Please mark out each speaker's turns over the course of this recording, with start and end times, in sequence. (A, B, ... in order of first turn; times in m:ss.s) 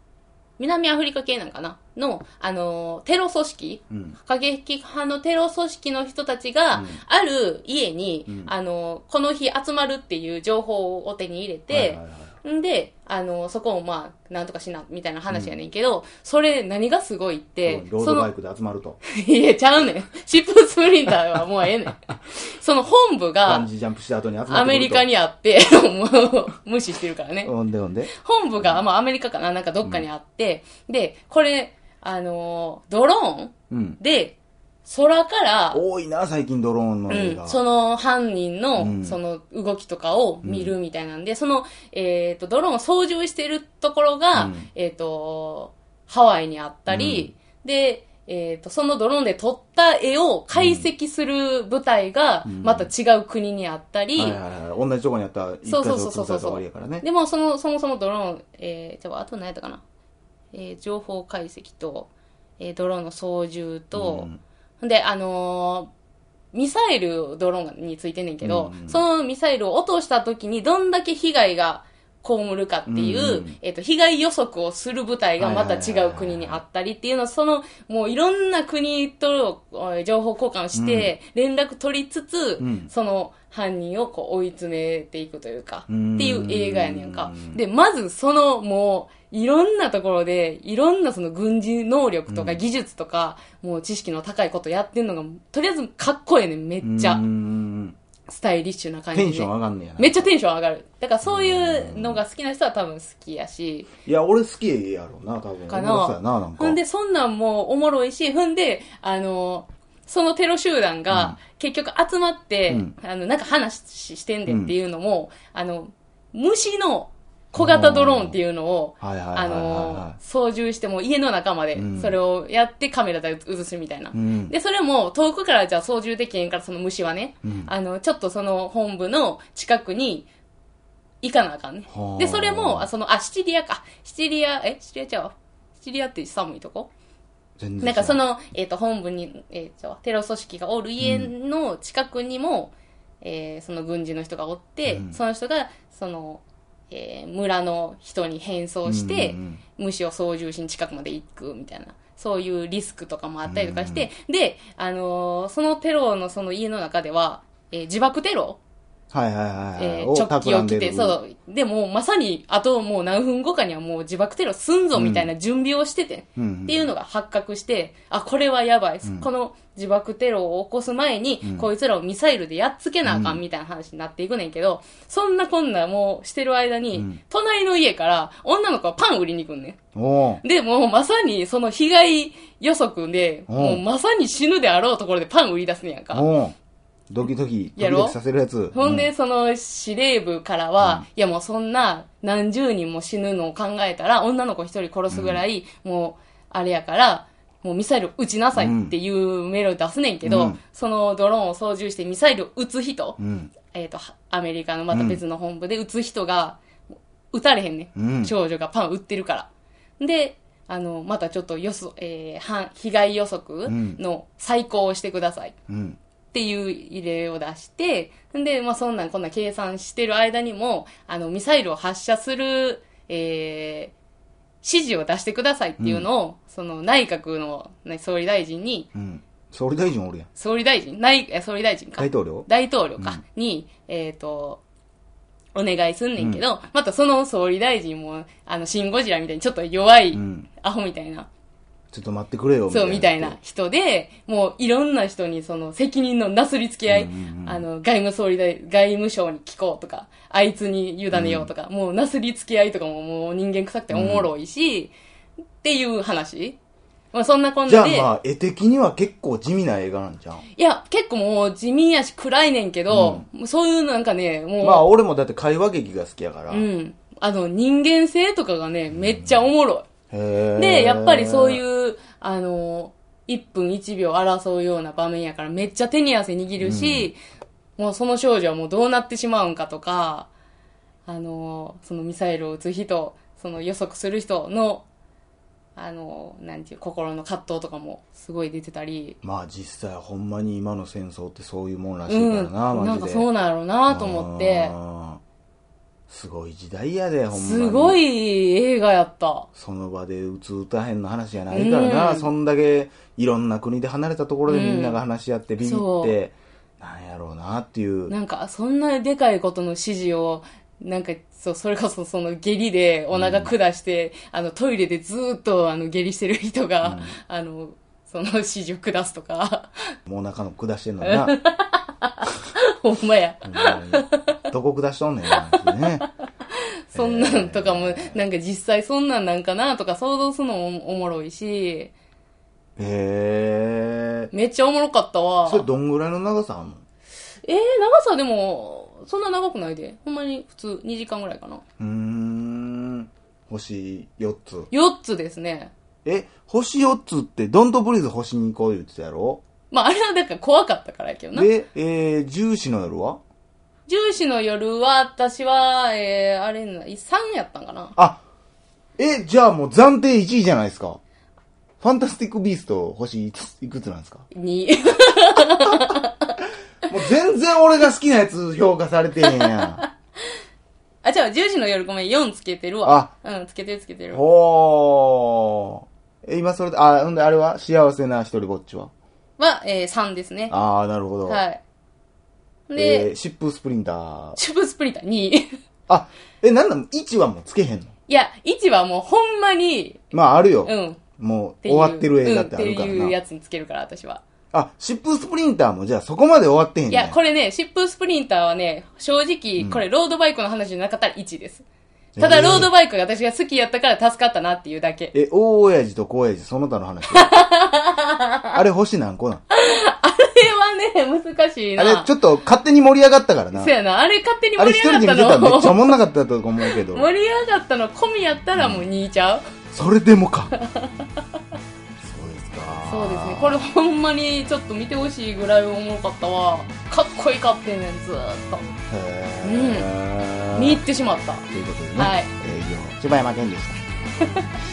0:00.6-0:18.3 A
0:03.9-0:04.2 B
0:06.7-0:07.0 B
0:11.7-0:12.4 B
0:17.7-0:19.0 B
0:19.0-0:23.7 A
0:23.4-0:25.1 B
0:24.5-0:27.5 A
0:27.4-0:28.8 B
0:28.1-0:35.8 A
0:33.7-0:34.0 B
0:35.7-0:37.6 B
0:37.1-0:54.4 A
0:38.8-0:39.2 B
0:40.4-0:40.7 B
0:44.4-0:44.7 B
0:46.9-0:47.3 B
0:50.5-0:50.9 B
0:52.4-0:52.9 B
0:54.2-0:57.0 B
0:55.7-0:59.8 A
1:00.5-1:05.9 A
1:03.9-1:04.4 B
1:06.5-1:37.2 A
1:08.4-1:09.0 B
1:12.9-1:13.6 B
1:15.4-1:16.6 B
1:20.7-1:21.1 B
1:22.6-1:22.9 B
1:25.9-1:27.6 B
1:32.3-1:32.6 B
1:36.8-1:38.0 B
1:38.3-1:43.9 A
1:39.1-1:40.3 B
1:41.2-1:42.2 B
1:44.0-1:46.8 B
1:45.7-2:10.3 A
1:51.1-1:51.4 B
1:54.5-1:54.7 B
1:57.6-1:58.4 B
1:59.0-2:00.2 B
2:01.8-2:02.2 B
2:04.1-2:04.5 B
2:07.4-2:07.7 B
2:11.2-2:16.9 A
2:11.9-2:12.9 B
2:17.6-2:18.2 B
2:17.8-2:38.6 A
2:21.0-2:21.3 B
2:24.9-2:25.2 B
2:28.9-2:29.6 B
2:33.4-2:34.1 B
2:39.1-2:41.2 B
2:39.8-2:59.8 A
2:44.9-2:45.3 B
2:46.4-2:46.9 B
2:51.4-2:51.7 B
2:53.0-2:53.4 B
3:00.0-3:00.4 B
3:00.4-3:06.3 A
3:03.5-3:03.8 B
3:06.1-3:06.5 B
3:07.1-3:09.1 B
3:07.8-3:08.2 A
3:08.7-3:26.6 A
3:15.1-3:15.4 B
3:18.6-3:19.0 B
3:20.2-3:20.6 B
3:23.2-3:23.5 B
3:24.9-3:25.2 B
3:27.3-3:35.6 A
3:28.0-3:28.3 B
3:33.7-3:34.0 B
3:35.7-3:36.0 B
3:36.3-3:43.9 A
3:44.6-3:48.9 A
3:45.8-3:46.1 B
3:49.0-3:50.3 B
3:50.4-3:54.6 A
3:52.0-3:53.2 B
3:55.6-4:01.3 A
3:56.2-3:56.4 B
4:00.1-4:00.5 B
4:01.9-4:03.4 B
4:02.7-4:14.9 A
4:06.9-4:07.7 B
4:11.1-4:11.5 B
4:13.9-4:14.3 B
4:15.6-4:16.6 A
4:17.1-4:18.1 A
4:17.7-4:20.5 B
4:20.6-4:24.9 A
4:22.9-4:23.2 B
4:24.6-4:26.7 B
4:26.5-4:29.9 A
4:28.9-4:29.4 B
4:30.1-4:31.6 B
4:30.6-4:37.2 A
4:36.6-4:37.1 B
4:37.8-4:40.3 A
4:41.1-4:44.8 A
4:45.8-4:49.2 A
4:49.2-4:53.3 B
4:52.1-4:54.8 A
4:53.9-4:55.2 B
4:56.1-4:58.0 B
4:57.3-4:59.5 A
4:59.6-5:08.1 B
5:01.5-5:02.3 A
5:04.5-5:05.0 A
5:05.6-5:06.1 A
5:08.1-5:20.0 A
5:13.1-5:13.5 B
5:16.8-5:17.2 B
5:20.1-5:21.4 B
5:21.0-5:24.4 A
5:23.4-5:26.0 B
5:25.3-5:26.1 A
5:26.9-5:31.9 A
5:27.0-5:28.2 B
5:32.8-5:34.3 B
5:34.3-5:35.7 A
5:35.5-5:36.8 B
5:37.4-5:41.6 A
5:41.8-5:44.7 B
5:44.7-5:45.7 A
5:46.0-5:49.4 B
5:49.7-5:51.5 A
5:51.3-5:53.2 B
5:53.9-5:58.0 A
5:58.0-5:58.2 B
5:59.0-6:01.0 B
6:01.8-6:04.3 B
6:04.3-6:06.3 A
6:06.9-6:09.8 B
6:09.2-6:09.9 A
6:11.0-6:14.2 A
6:12.8-6:13.1 B
6:14.1-6:18.9 B
6:19.4-6:20.6 A
6:20.5-6:21.4 B
6:21.3-6:21.6 A
6:22.7-6:23.1 A
6:22.8-6:24.4 B
6:24.4-6:25.5 A
6:25.9-6:27.9 B
6:28.1-6:30.0 A
6:30.1-6:33.2 B
6:30.6-6:31.0 A
6:31.6-6:34.2 A
6:34.5-6:37.2 B
6:36.9-6:41.6 A
6:42.2-6:42.7 B
6:42.2-6:45.1 A
6:45.1-6:47.3 B
6:47.1-6:48.6 A
6:48.5-6:49.4 B
6:49.5-6:52.1 A
6:51.8-6:53.7 B
6:53.6-6:56.0 A
6:54.6-6:57.1 B
6:56.6-6:59.4 A
6:58.5-6:58.9 B
6:59.7-7:00.5 B
7:00.6-7:01.2 A
7:02.0-7:03.6 B
7:02.8-7:08.7 A
7:08.9-7:10.8 B
7:09.4-7:09.9 A
7:10.5-7:12.3 A
7:11.5-7:13.8 B